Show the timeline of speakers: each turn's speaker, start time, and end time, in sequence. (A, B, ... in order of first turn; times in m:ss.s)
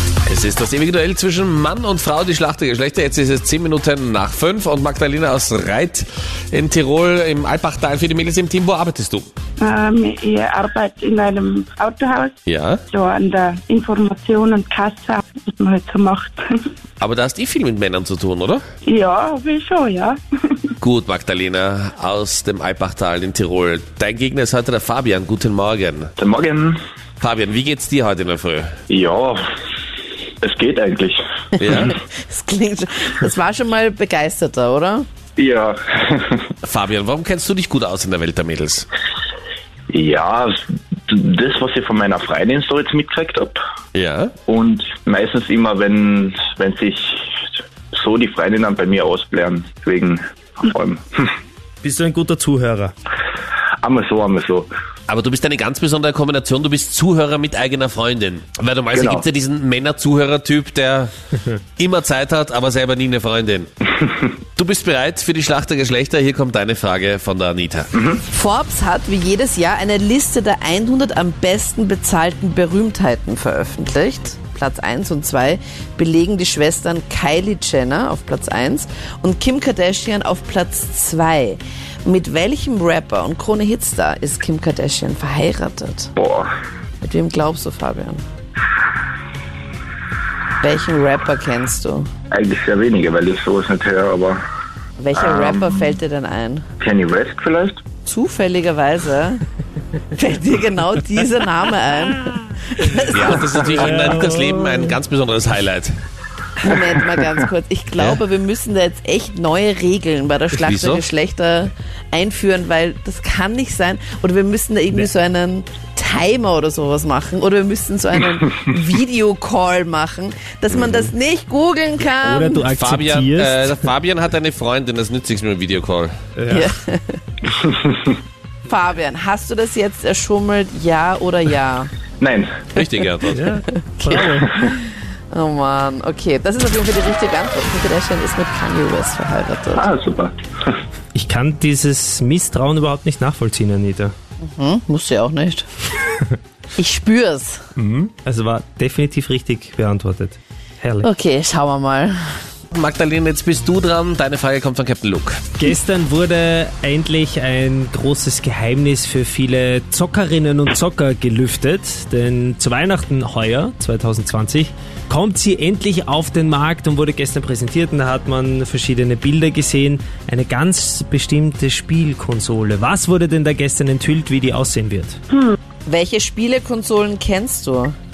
0:00.2-0:09.3 A
0:09.6-0:12.4 B
0:12.4-0:12.8 A
0:12.9-0:16.6 B
0:17.0-0:18.6 A
0:18.8-0:20.7 B
0:20.8-0:26.1 A
0:26.2-0:26.8 C
0:27.2-0:28.7 A
0:28.9-0:29.4 C
0:30.4-0:31.2 C
0:31.6-0:31.9 A
0:31.6-0:35.0 D
0:35.4-0:36.4 C
0:36.6-0:38.9 A
0:39.9-0:43.6 C
0:43.9-0:44.3 A
0:44.5-0:51.4 C
0:51.8-0:52.9 E
0:53.8-0:54.7 C
0:55.1-1:01.1 A
0:58.9-0:59.2 C
1:01.8-1:03.7 A
1:04.6-1:07.9 A
1:07.9-1:08.2 C
1:08.3-1:26.1 D
1:26.2-1:26.5 C
1:27.0-1:28.2 D
1:30.6-1:32.1 D
1:32.3-1:34.4 C
1:35.0-1:36.6 D
1:35.1-1:35.8 C
1:36.8-1:37.8 C
1:38.0-1:39.4 D
1:40.2-1:43.9 D
1:43.1-1:45.9 A
1:43.8-1:44.2 E
1:46.6-2:02.6 D
1:50.5-1:51.1 A
2:02.2-2:03.9 E
2:02.8-2:06.1 A
2:06.4-2:06.6 E
2:06.5-2:07.2 D
2:07.6-2:08.1 C
2:08.7-2:11.9 D
2:12.2-2:12.6 C
2:12.7-2:13.4 A
2:13.3-2:14.5 E
2:14.0-2:19.8 D
2:19.7-2:20.3 C
2:21.1-2:24.1 E
2:24.4-2:25.7 D
2:26.8-2:27.6 D
2:27.8-2:31.1 E
2:31.0-2:32.2 D
2:32.7-2:35.4 A
2:35.6-2:55.2 E
2:55.3-2:55.6 B
2:55.8-2:57.9 D